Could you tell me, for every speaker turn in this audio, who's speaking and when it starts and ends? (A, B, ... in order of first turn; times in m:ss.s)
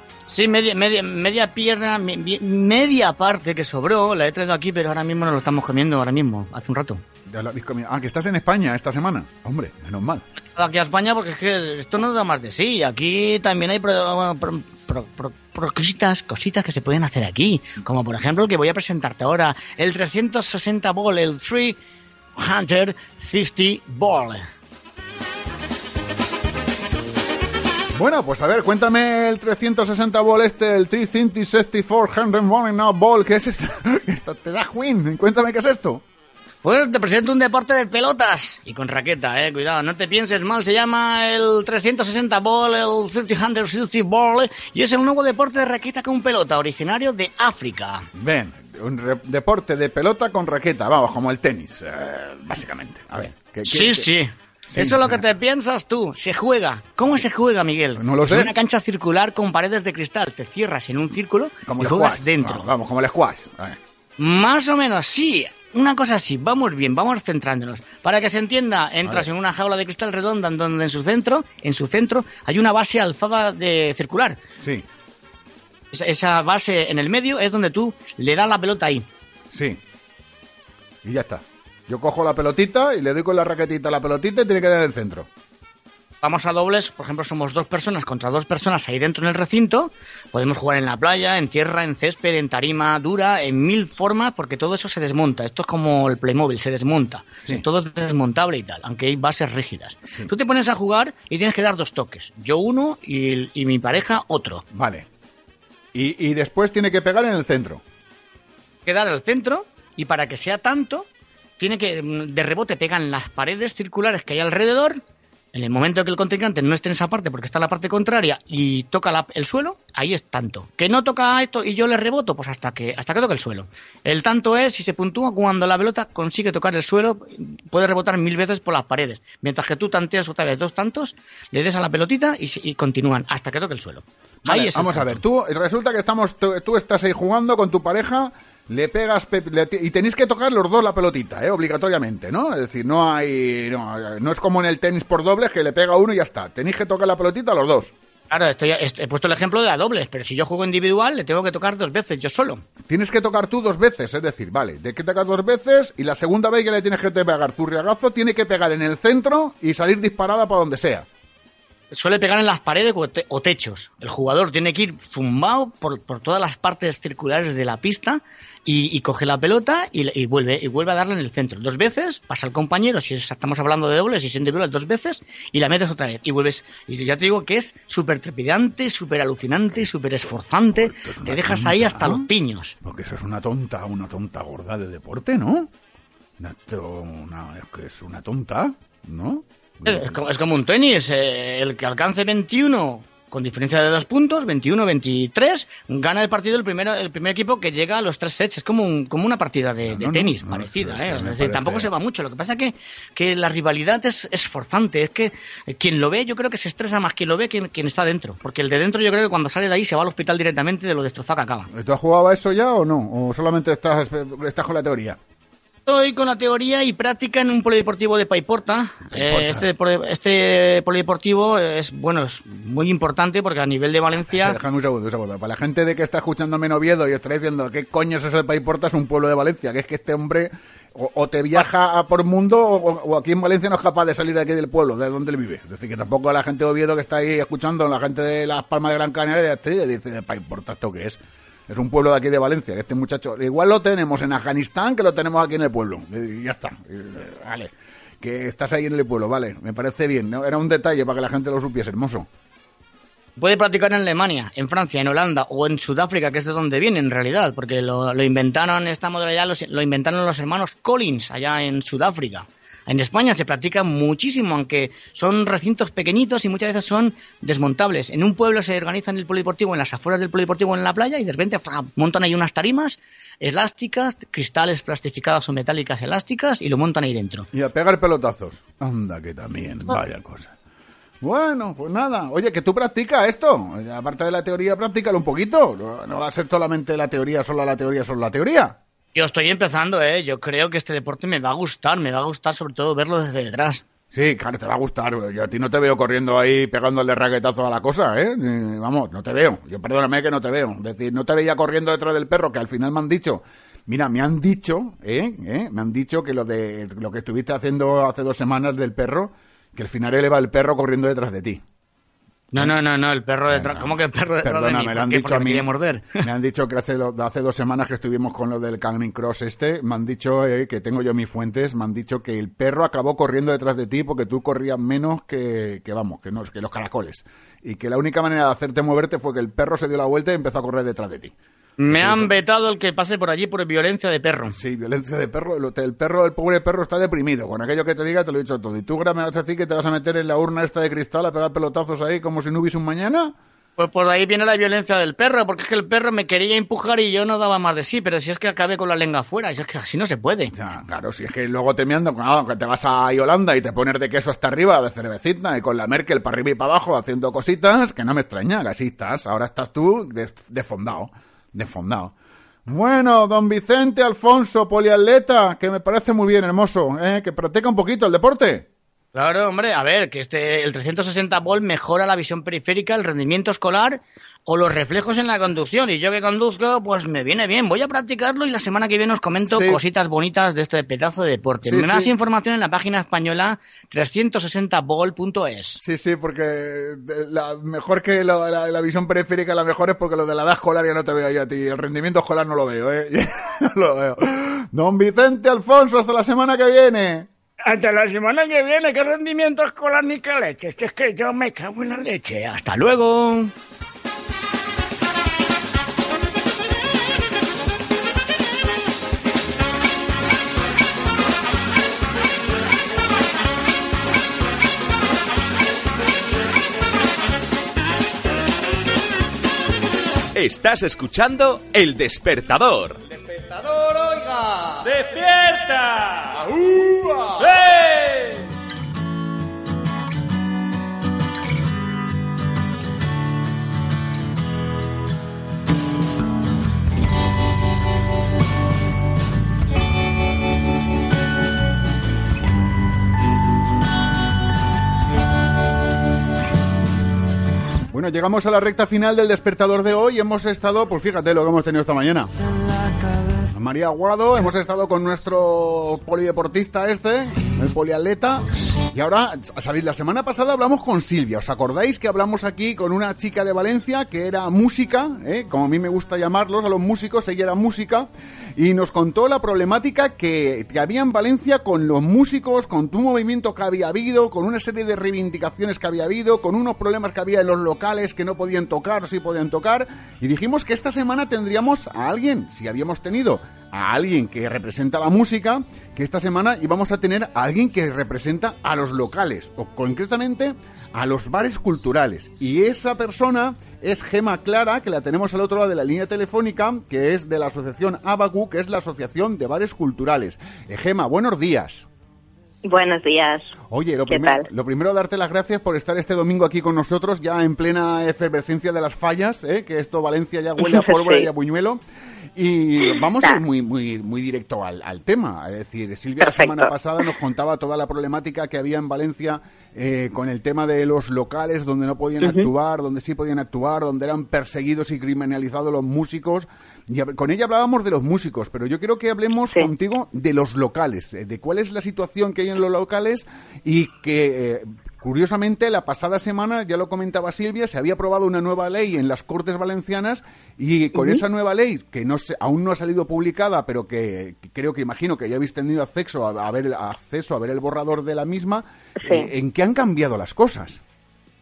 0:00.3-0:07.0 A
0:07.2-0:10.2 B
0:10.6-0:21.8 A
0:22.4-0:24.4 A
0:28.0-0:36.0 B
0:36.6-0:48.0 A
0:48.1-0:54.1 B
0:53.6-1:02.7 A
0:54.7-0:55.2 B
0:58.0-0:58.5 B
1:01.6-1:03.8 B
1:04.2-1:14.4 A
1:15.9-1:19.0 A
1:19.5-1:19.8 B
1:21.0-1:25.3 B
1:26.2-1:44.6 A
1:44.7-1:45.1 B
1:45.9-1:47.8 B
1:48.8-1:51.1 A
1:51.6-1:55.0 A
1:55.5-2:15.2 A
2:14.4-2:27.9 B
2:28.3-2:32.6 A
2:32.8-2:41.1 B
2:41.9-3:02.7 A
3:00.7-3:02.3 B
3:02.8-3:05.7 B
3:06.4-3:10.2 B
3:09.8-3:31.7 A
3:19.8-3:21.9 B
3:31.7-3:35.2 B
3:35.8-3:44.6 A
3:39.1-3:39.6 B
3:44.3-4:12.3 B
4:13.4-4:37.5 A
4:37.5-4:40.5 B
4:41.2-4:48.8 B
4:49.1-4:53.8 A
4:54.1-5:11.6 B
5:12.5-5:16.2 A
5:13.5-5:31.3 B
5:31.8-5:34.6 A
5:31.9-5:32.3 B
5:34.5-5:43.3 B
5:43.8-5:50.5 A
5:50.5-6:02.1 B
6:02.6-6:08.7 B
6:09.1-6:25.8 A
6:19.4-6:19.8 B
6:21.6-6:22.1 B
6:25.8-6:37.3 B
6:37.6-6:43.5 A
7:00.3-7:03.0 C
7:04.9-7:06.3 C
7:07.5-7:08.0 C
7:27.9-7:32.3 B
7:33.5-8:21.9 B
8:22.6-8:23.5 D
8:23.7-8:31.8 B
8:24.1-8:24.4 D
8:30.6-8:31.3 D
8:32.3-9:10.8 B
8:36.2-8:36.7 D
8:42.2-8:42.5 D
9:01.0-9:01.2 D
9:09.0-9:09.3 D